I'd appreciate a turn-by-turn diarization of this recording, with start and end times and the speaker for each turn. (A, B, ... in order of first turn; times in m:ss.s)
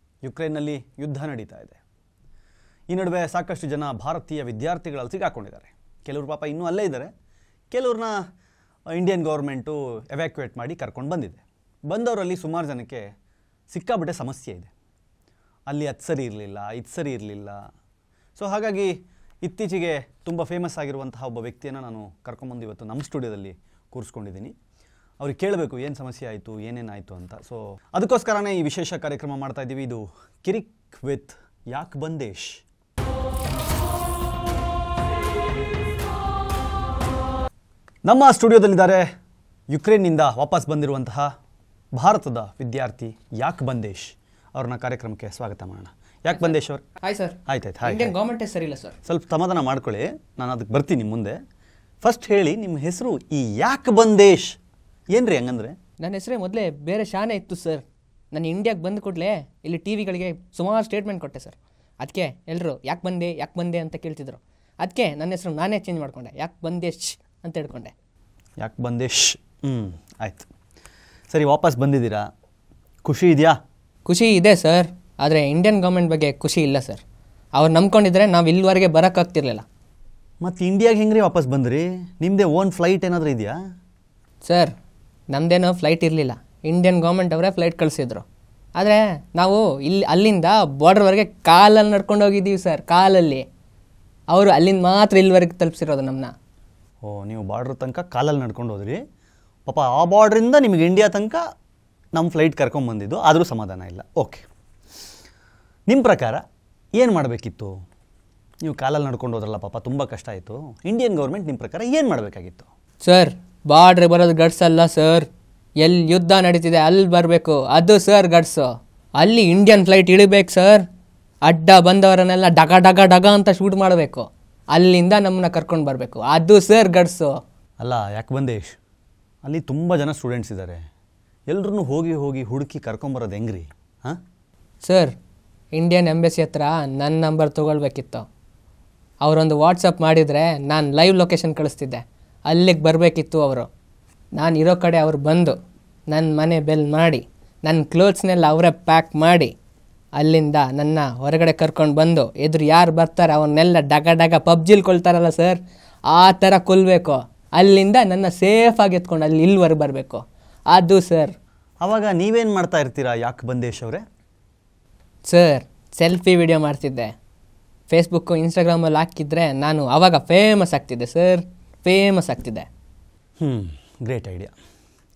0:00.2-0:01.8 A
0:02.9-0:07.1 A
0:07.7-0:08.2 A
0:08.9-0:13.0 A
0:13.7-0:14.7 A
0:15.7-0:17.6 A
0:18.4-0:24.6 A
0:25.2-0:32.6 A
0:38.0-0:39.0 A
0:39.7-0:41.3 A
0:42.0-0:46.8 A
0:46.3-0:49.0 B
0:47.5-0:48.1 A
0:49.0-0:51.4 A
0:52.0-0:54.6 A
0:55.1-0:55.8 A
0:56.0-1:07.9 B
1:08.6-1:10.5 A
1:11.3-1:12.3 A
1:13.0-1:13.6 A
1:14.0-1:17.0 B
1:17.6-1:19.6 B
1:20.4-1:23.6 A
1:24.4-1:24.7 B
1:25.3-1:28.2 B
1:28.8-1:33.4 B
1:34.3-1:36.3 B
1:37.0-1:39.0 A
1:39.7-1:41.4 A
1:42.2-1:44.5 A
1:45.9-1:46.4 A
1:47.0-1:47.7 A
1:48.6-1:52.7 A
1:53.0-1:55.3 B
1:55.8-1:58.7 B
1:59.2-2:00.8 B
2:01.5-2:07.3 B
2:07.8-2:08.8 A
2:09.4-2:10.8 A
2:11.5-2:14.2 A
2:14.8-2:15.1 B
2:15.7-2:18.3 B
2:19.2-2:23.7 B
2:24.4-2:25.6 B
2:26.1-2:29.5 B
2:30.2-2:35.6 B
2:36.1-2:41.3 B
2:41.8-2:44.0 A
2:45.3-2:47.1 B
2:47.9-2:52.7 B
2:53.4-2:54.5 A